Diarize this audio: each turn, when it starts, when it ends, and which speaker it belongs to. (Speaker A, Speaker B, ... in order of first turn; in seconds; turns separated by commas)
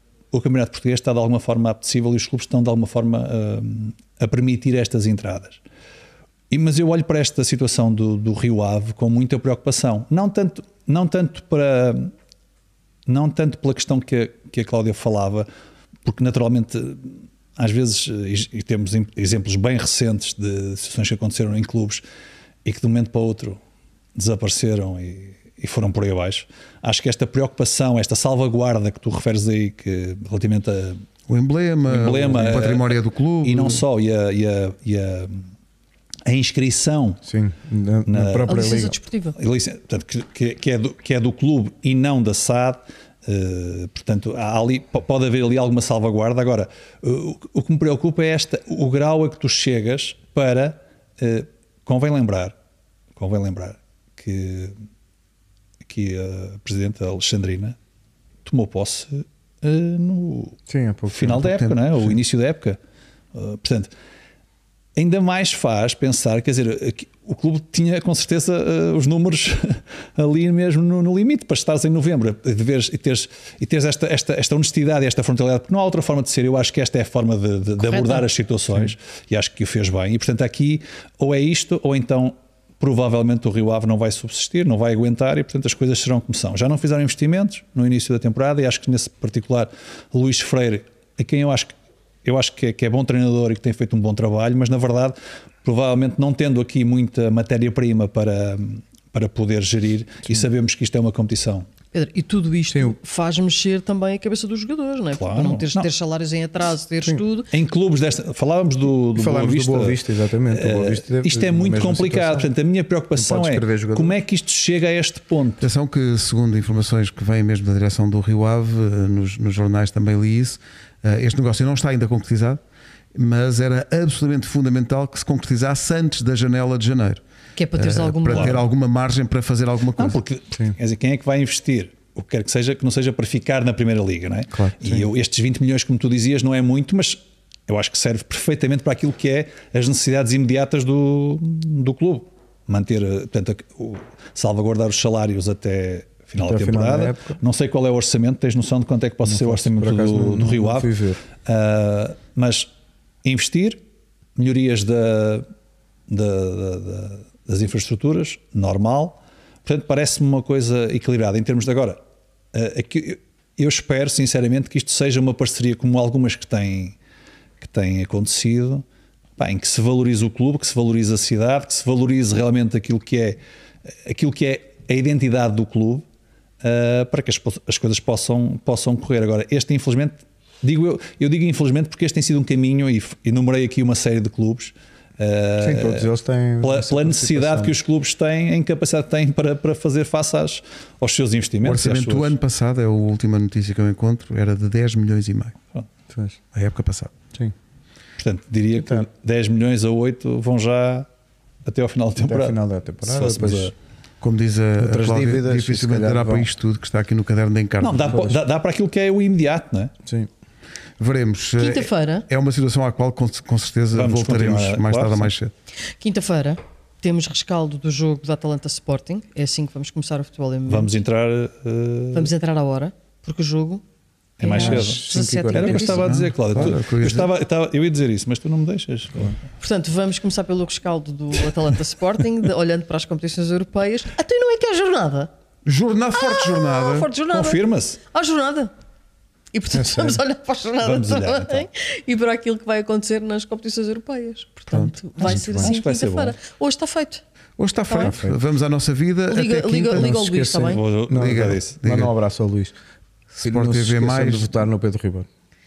Speaker A: 0.3-5.6, Speaker A: 6.5-12.1, Speaker A: 13.1-15.5, Speaker A: 16.1-22.0, Speaker A: 22.6-23.6, Speaker A: 24.2-31.0, Speaker B: 31.3-33.8, Speaker A: 31.9-35.5, Speaker A: 36.3-37.2, Speaker C: 37.2-39.0, Speaker A: 38.1-38.6, Speaker D: 38.5-39.4, Speaker A: 39.4-52.5, Speaker A: 53.2-54.8, Speaker A: 55.8-57.8, Speaker A: 58.5-62.8, Speaker C: 60.7-61.5, Speaker B: 61.5-61.8, Speaker A: 63.3-63.9, Speaker A: 65.0-91.7, Speaker D: 77.8-78.2, Speaker A: 92.2-101.7, Speaker D: 101.9-107.5, Speaker C: 102.7-103.0, Speaker A: 105.2-105.9, Speaker A: 107.5-115.7, Speaker C: 109.2-112.5, Speaker C: 113.2-114.2, Speaker B: 115.6-122.6, Speaker B: 123.2-127.2, Speaker D: 127.6-128.6, Speaker B: 127.8-130.2, Speaker A: 128.3-128.6, Speaker A: 130.0-152.7, Speaker C: 134.7-135.1, Speaker C: 146.4-147.4, Speaker C: 149.2-151.2, Speaker A: 153.2-153.8, Speaker A: 154.4-155.5, Speaker A: 156.1-162.0, Speaker A: 162.5-167.0, Speaker A: 167.6-168.8, Speaker A: 169.4-173.4, Speaker A: 174.1-176.0, Speaker A: 176.6-186.1, Speaker C: 185.6-187.8, Speaker A: 186.6-192.3, Speaker B: 191.6-195.6, Speaker C: 196.1-196.4, Speaker B: 196.5-197.1, Speaker A: 198.2-201.1, Speaker C: 198.8-199.1, Speaker A: 201.7-203.7, Speaker C: 202.2-203.7, Speaker B: 204.2-208.3, Speaker C: 204.8-206.5, Speaker A: 207.8-209.9, Speaker C: 208.1-208.4, Speaker B: 211.0-215.5, Speaker D: 211.6-212.3, Speaker A: 213.9-215.3, Speaker D: 216.0-220.9, Speaker A: 220.7-222.3, Speaker D: 222.1-223.8, Speaker A: 224.4-229.3, Speaker D: 224.4-226.1, Speaker C: 224.6-226.8, Speaker B: 226.1-227.3, Speaker D: 229.6-235.3, Speaker B: 235.7-237.1, Speaker D: 236.1-238.7, Speaker A: 237.3-238.0, Speaker D: 239.5-247.2, Speaker C: 239.7-240.2, Speaker A: 240.8-241.7, Speaker B: 244.7-245.7, Speaker A: 245.2-246.3, Speaker B: 247.6-250.2, Speaker D: 247.9-248.1, Speaker C: 247.9-248.4, Speaker D: 249.3-250.8, Speaker C: 250.0-252.8, Speaker A: 250.7-251.8, Speaker B: 251.1-252.1, Speaker B: 253.3-254.5, Speaker C: 253.4-255.3